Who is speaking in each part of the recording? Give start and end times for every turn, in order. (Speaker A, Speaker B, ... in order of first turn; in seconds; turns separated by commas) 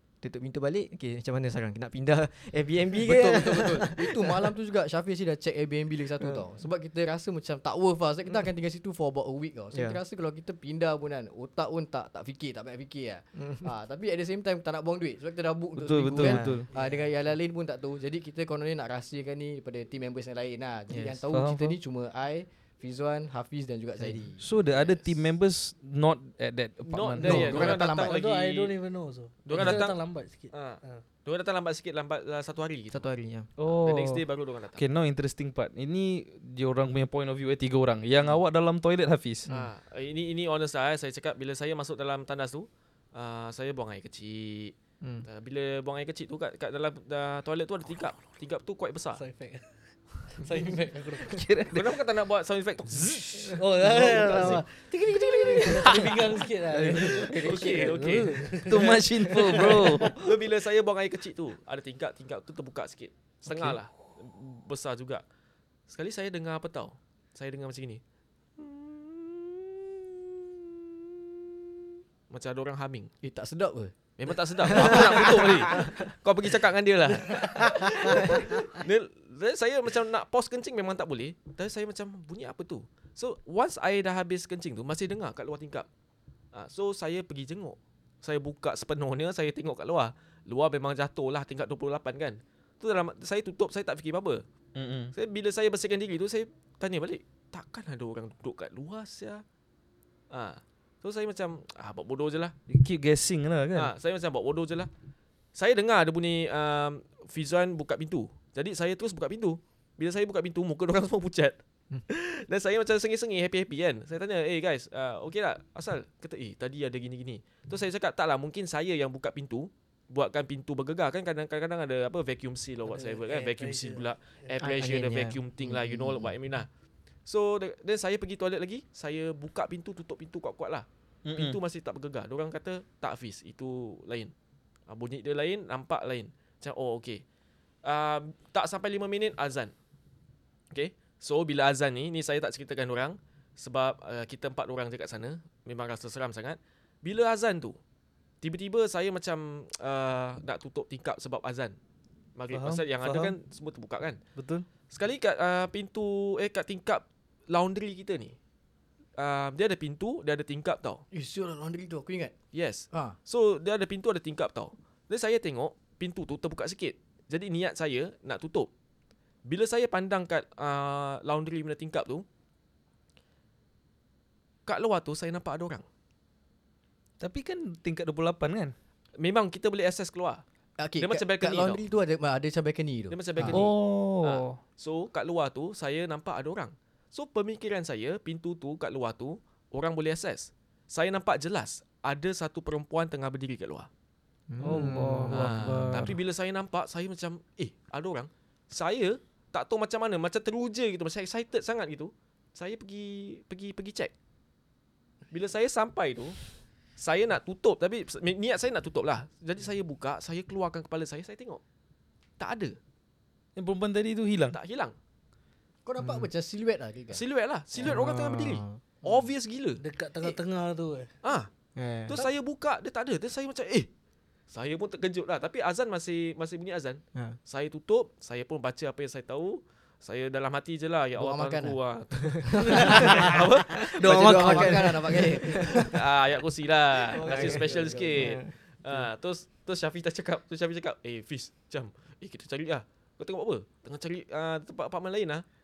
Speaker A: 0.2-4.4, Speaker B: 3.0-24.4, Speaker A: 9.7-10.0, Speaker A: 13.3-13.7, Speaker C: 15.8-16.7, Speaker A: 16.1-16.6, Speaker A: 20.9-21.2, Speaker C: 21.3-21.8, Speaker A: 24.0-24.3, Speaker C: 24.4-27.7, Speaker D: 24.7-25.1, Speaker D: 26.9-28.7, Speaker B: 27.2-28.2, Speaker E: 27.6-31.0, Speaker D: 29.4-30.0, Speaker D: 30.5-33.1, Speaker A: 32.9-33.5, Speaker C: 33.6-34.2, Speaker D: 33.8-34.8, Speaker C: 34.7-39.5, Speaker D: 39.5-49.2, Speaker A: 45.0-45.2, Speaker E: 49.2-51.4, Speaker C: 51.2-51.8, Speaker D: 51.7-53.5, Speaker A: 53.4-54.6, Speaker E: 53.5-60.2, Speaker A: 55.5-55.9, Speaker D: 55.6-56.2, Speaker A: 56.6-58.3, Speaker D: 57.3-58.5, Speaker C: 58.6-60.1, Speaker A: 59.1-60.2, Speaker D: 60.1-65.2, Speaker D: 65.9-68.0, Speaker D: 68.6-69.9, Speaker D: 72.3-73.1, Speaker B: 73.2-73.9, Speaker D: 74.2-85.9, Speaker B: 74.7-75.6, Speaker A: 74.8-75.8, Speaker A: 77.8-78.2, Speaker D: 86.5-94.4, Speaker C: 94.8-95.1, Speaker D: 95.2-99.4, Speaker D: 100.3-102.5, Speaker C: 102.7-103.9, Speaker D: 103.7-104.9, Speaker D: 105.5-126.7, Speaker E: 122.9-124.0, Speaker A: 124.6-126.3, Speaker D: 127.2-134.3, Speaker C: 131.2-131.6, Speaker D: 134.9-137.2, Speaker D: 137.8-139.7, Speaker D: 140.7-147.8, Speaker D: 148.4-151.7, Speaker D: 152.3-154.2, Speaker C: 152.5-153.3, Speaker C: 154.4-154.7, Speaker D: 154.9-158.3, Speaker D: 159.2-161.0, Speaker B: 161.1-162.3, Speaker D: 162.5-168.7, Speaker D: 169.4-172.2, Speaker D: 174.7-175.8, Speaker C: 177.2-178.7, Speaker D: 179.2-180.4, Speaker B: 180.8-183.7, Speaker D: 181.0-181.8, Speaker D: 183.1-193.9, Speaker C: 183.5-184.6, Speaker A: 194.5-195.8, Speaker C: 194.6-196.2, Speaker D: 195.3-204.1, Speaker D: 205.3-206.4, Speaker D: 207.0-211.6, Speaker D: 212.4-212.8, Speaker C: 213.6-214.6, Speaker D: 214.5-214.9, Speaker B: 215.8-217.2, Speaker A: 216.0-216.3, Speaker D: 217.1-220.3, Speaker A: 217.8-218.8, Speaker E: 219.8-221.1, Speaker D: 221.2-221.5, Speaker A: 221.8-222.2, Speaker D: 222.1-223.9, Speaker D: 224.5-234.4, Speaker B: 231.2-231.8, Speaker A: 232.5-233.3, Speaker B: 232.7-233.3, Speaker E: 232.8-233.3, Speaker A: 233.9-235.9, Speaker B: 234.0-236.0, Speaker E: 234.0-234.9, Speaker D: 235.8-245.4, Speaker A: 237.1-238.5, Speaker B: 237.2-238.3